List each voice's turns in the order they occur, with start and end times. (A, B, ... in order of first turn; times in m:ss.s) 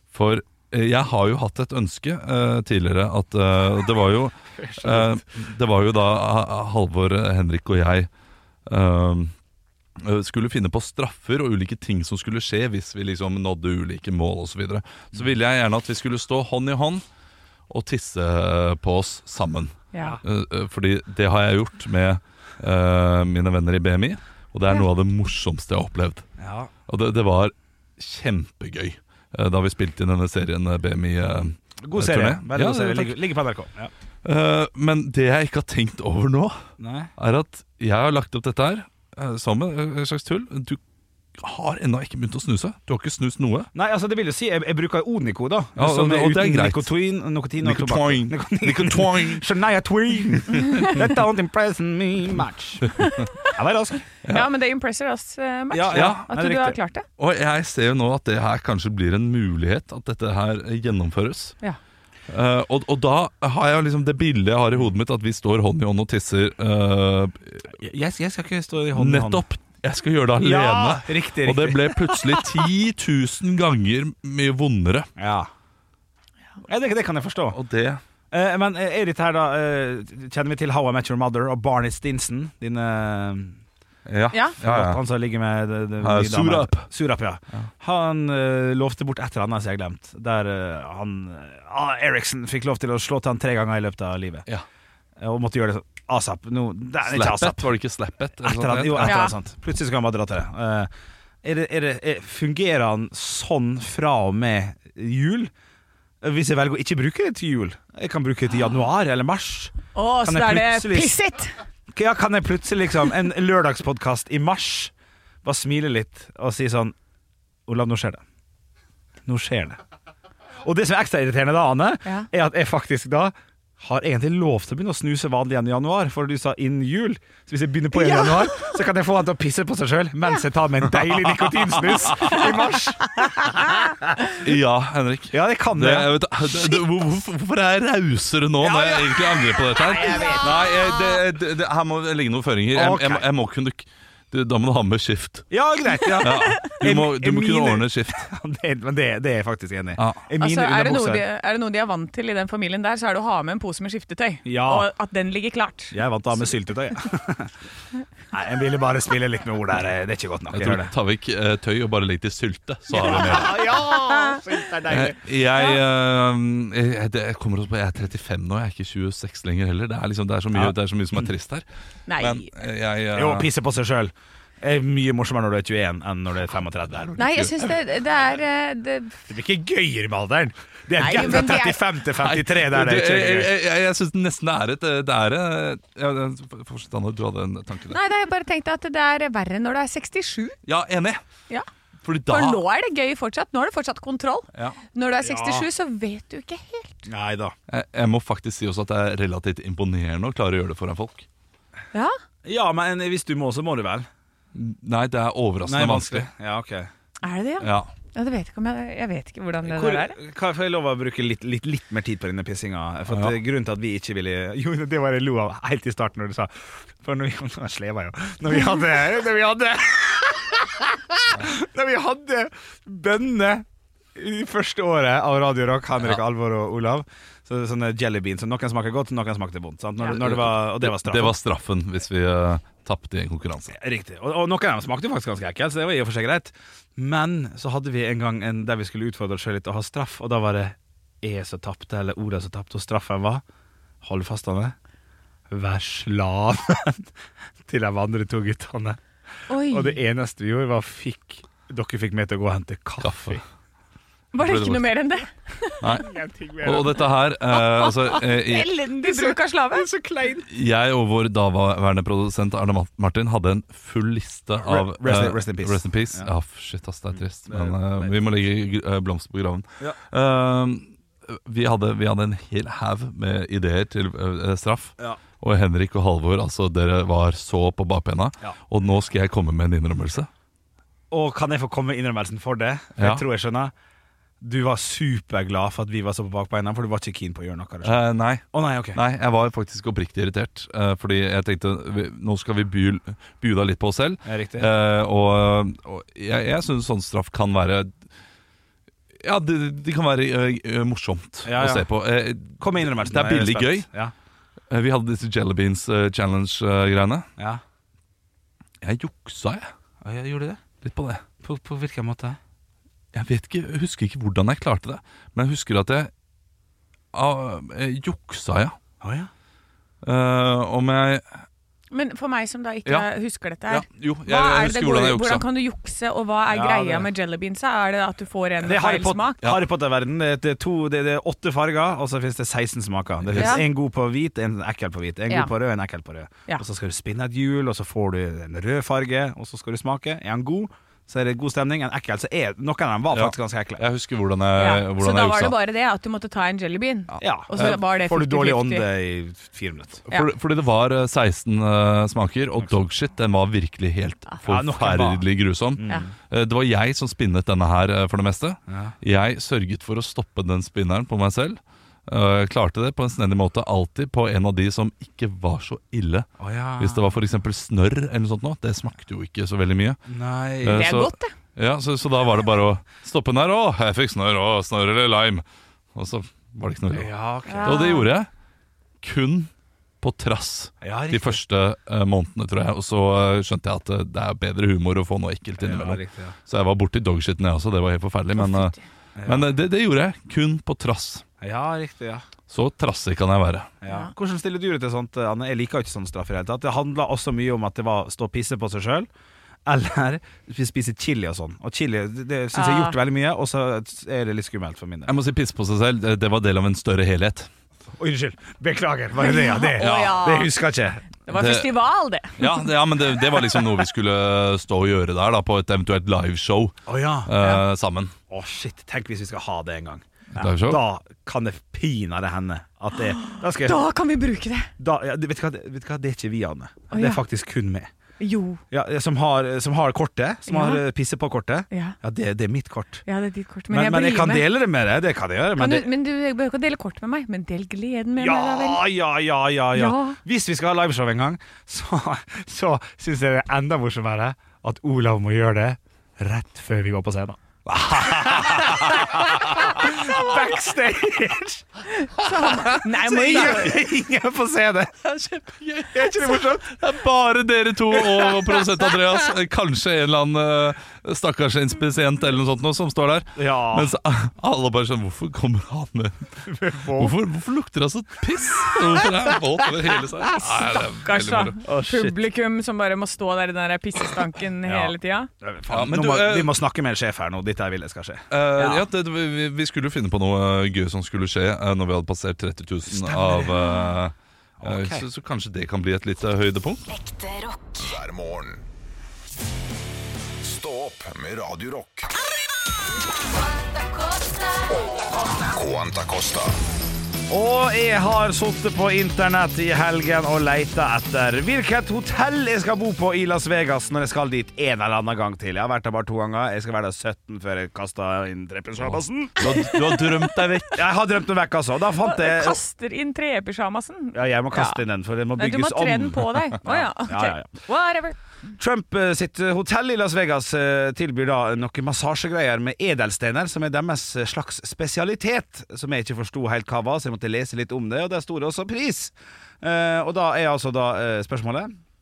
0:00.1-0:08.1 A
0:04.6-0:05.2 B
0:08.7-0:09.3 A
0:10.0-0:17.0 A
0:17.7-0:26.2 A
0:19.9-0:20.2 C
0:26.4-0:26.7 B
0:26.9-0:33.2 A
0:31.8-0:33.9 B
0:34.2-0:40.8 A
0:36.8-0:37.1 B
0:41.4-0:43.7 A
0:43.7-0:54.1 B
0:45.8-0:46.9 A
0:47.6-0:49.4 A
0:53.0-0:53.5 C
0:54.2-0:57.0 C
0:55.7-0:56.8 B
0:55.9-0:56.2 A
0:57.2-1:01.6 A
1:02.3-1:07.7 A
1:07.7-1:09.4 B
1:08.9-1:15.1 A
1:10.4-1:12.1 B
1:15.2-1:15.5 B
1:16.6-1:17.6 B
1:17.5-1:18.0 A
1:18.3-1:23.6 B
1:24.0-1:25.0 A
1:24.3-1:24.6 C
1:24.6-1:34.4 B
1:26.0-1:26.9 A
1:35.2-1:37.7 B
1:37.1-1:39.2 A
1:38.4-1:40.9 B
1:39.0-1:39.3 C
1:41.4-1:45.5 B
1:46.2-1:51.2 B
1:49.9-1:51.6 C
1:51.9-1:54.9 B
1:55.4-1:56.9 B
1:57.7-1:58.2 B
1:59.2-1:59.8 B
2:00.6-2:14.1 B
2:08.0-2:08.3 C
2:11.9-2:12.4 A
2:12.2-2:12.4 C
2:14.4-2:25.5 A
2:15.3-2:16.1 B
2:18.6-2:20.5 B
2:19.8-2:20.7 C
2:22.7-2:23.2 B
2:25.5-2:31.2 B
2:26.2-2:28.3 A
2:30.0-2:30.2 A
2:30.4-2:36.5 C
2:34.4-2:34.9 B
2:35.9-2:37.5 B
2:38.3-2:40.9 B
2:40.5-2:43.6 A
2:42.9-2:45.2 B
2:44.9-2:51.6 A
2:50.5-2:51.3 B
2:52.1-2:52.5 C
2:52.2-2:53.5 A
2:53.1-2:57.5 B
2:57.2-2:59.2 C
2:59.3-3:03.5 B
3:01.0-3:01.8 C
3:02.2-3:08.0 A
3:07.9-3:10.6 C
3:10.6-3:11.2 A
3:12.0-3:12.6 A
3:12.3-3:17.1 C
3:15.2-3:15.7 B
3:17.1-3:17.5 B
3:17.7-3:21.2 A
3:22.4-3:24.1 B
3:24.5-3:26.3 A
3:25.6-3:26.9 B
3:27.2-3:30.2 C
3:27.6-3:27.9 A
3:29.6-3:51.3 B
3:33.1-3:33.3 A
3:50.0-3:53.7 A
3:53.7-4:03.4 B
4:04.0-4:04.7 B
4:05.5-4:07.1 B
4:07.7-4:09.0 B
4:09.5-4:10.0 C
4:09.7-4:13.4 B
4:13.0-4:13.4 A
4:14.3-4:15.8 C
4:14.4-4:14.9 A
4:15.8-4:18.7 A
4:15.9-4:17.0 B
4:17.5-4:19.9 C
4:19.0-4:20.4 B
4:20.5-4:40.3 A
4:24.6-4:26.3 B
4:27.5-4:28.1 B
4:41.1-4:43.7 B
4:43.0-4:43.2 A
4:44.4-4:49.0 B
4:47.8-4:57.9 A
4:54.2-4:54.7 B
4:59.2-5:03.9 A
5:01.4-5:01.9 B
5:02.6-5:04.1 B
5:04.7-5:07.3 A
5:08.8-5:09.7 A
5:10.0-5:10.6 B
5:10.8-5:11.2 A
5:11.4-5:12.4 B
5:13.1-5:16.1 A
5:17.1-5:18.8 A
5:19.0-5:19.3 B
5:20.0-5:21.2 A
5:21.9-5:29.4 C
5:23.7-5:25.4 A
5:26.5-5:27.1 B
5:28.6-5:43.8 B
5:33.2-5:33.6 A
5:33.3-5:33.6 C
5:43.1-5:45.6 A
5:44.6-5:48.9 C
5:47.2-5:47.8 A
5:47.2-5:50.0 B
5:50.1-6:10.0 A
5:54.4-5:56.1 B
5:58.7-5:58.9 B
6:06.4-6:07.0 B
6:10.1-6:10.9 B
6:10.6-6:15.4 A
6:10.7-6:11.3 C
6:15.9-6:17.1 A
6:16.9-6:17.9 B
6:17.5-6:18.1 C
6:17.6-6:18.3 A
6:19.0-6:28.7 A
6:20.8-6:21.4 B
6:25.6-6:26.4 B
6:28.4-6:28.8 C
6:29.2-6:29.5 B
6:29.2-6:31.2 A
6:31.4-6:32.2 B
6:32.5-6:33.7 A
6:33.8-6:39.1 B
6:33.9-6:34.1 C
6:39.7-6:45.1 B
6:42.5-6:43.0 C
6:45.1-6:47.5 A
6:48.0-6:51.0 B
6:49.2-6:50.5 C
6:51.2-6:52.7 C
6:51.3-6:51.7 A
6:52.4-6:58.1 A
6:53.3-6:53.6 C
6:56.9-6:57.3 B
6:58.3-7:03.8 B
7:00.3-7:00.8 A
7:03.2-7:04.7 C
7:04.8-7:07.9 B
7:06.9-7:07.2 C
7:08.2-7:08.6 C
7:08.7-7:13.0 B
7:10.4-7:10.8 C
7:11.7-7:12.0 C
7:13.0-7:14.5 C
7:13.7-7:15.9 B
7:15.6-7:18.9 C
7:18.2-7:31.6 B
7:19.7-7:20.2 C
7:28.1-7:28.8 A
7:29.8-7:30.1 C
7:32.0-7:33.7 C
7:32.5-7:35.0 B
7:35.0-7:46.4 A
7:35.9-7:36.8 B
7:37.9-7:38.5 B
7:43.4-7:44.0 B
7:46.4-7:47.2 B
7:46.9-7:51.5 A
7:50.4-7:55.3 C
7:51.6-7:52.2 B
7:54.6-7:58.9 B
7:55.7-7:56.6 A
7:58.3-8:06.8 A
8:02.9-8:03.6 B
8:04.6-8:05.0 B
8:07.1-8:08.6 D
8:10.4-8:12.1 D
8:15.4-8:16.6 D
8:17.3-8:29.7 B
8:28.8-8:30.8 A
8:29.5-8:30.3 C
8:30.7-8:32.6 B
8:32.0-8:34.8 C
8:34.1-8:37.5 B
8:35.4-8:38.2 C
8:38.5-8:51.7 B